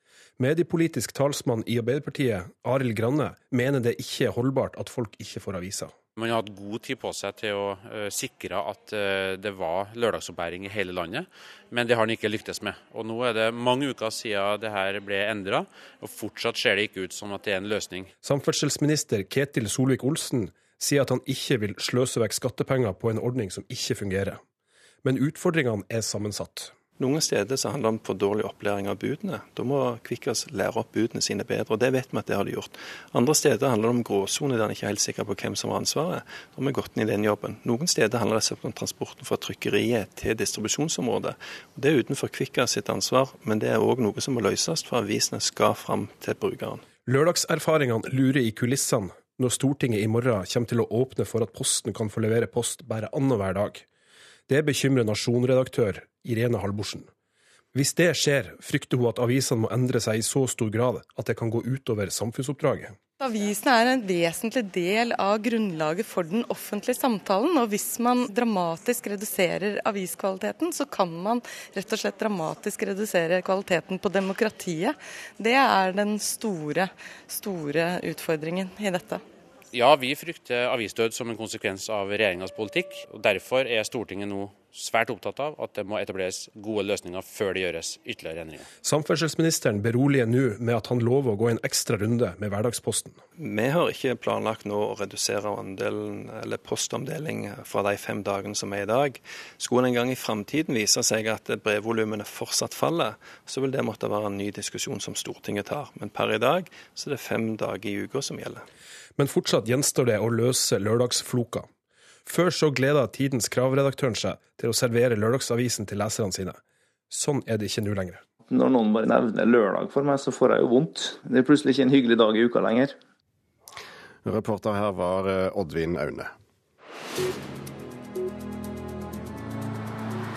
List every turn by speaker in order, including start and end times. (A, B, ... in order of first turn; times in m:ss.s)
0:00.4-0:05.9 A
0:06.2-0:18.1 B
0:18.2-0:24.4 A
0:25.0-0:26.8 A
0:27.0-0:46.8 C
0:47.0-0:53.8 A
0:54.5-0:57.1 A
0:57.7-1:03.0 A
1:03.2-1:19.2 D
1:19.7-1:28.7 B
1:28.8-1:33.2 A
1:33.4-1:48.6 C
1:49.2-1:51.7 A
1:52.2-1:56.6 A
1:57.1-1:58.2 A
1:58.5-2:03.0 E
2:04.2-2:06.3 F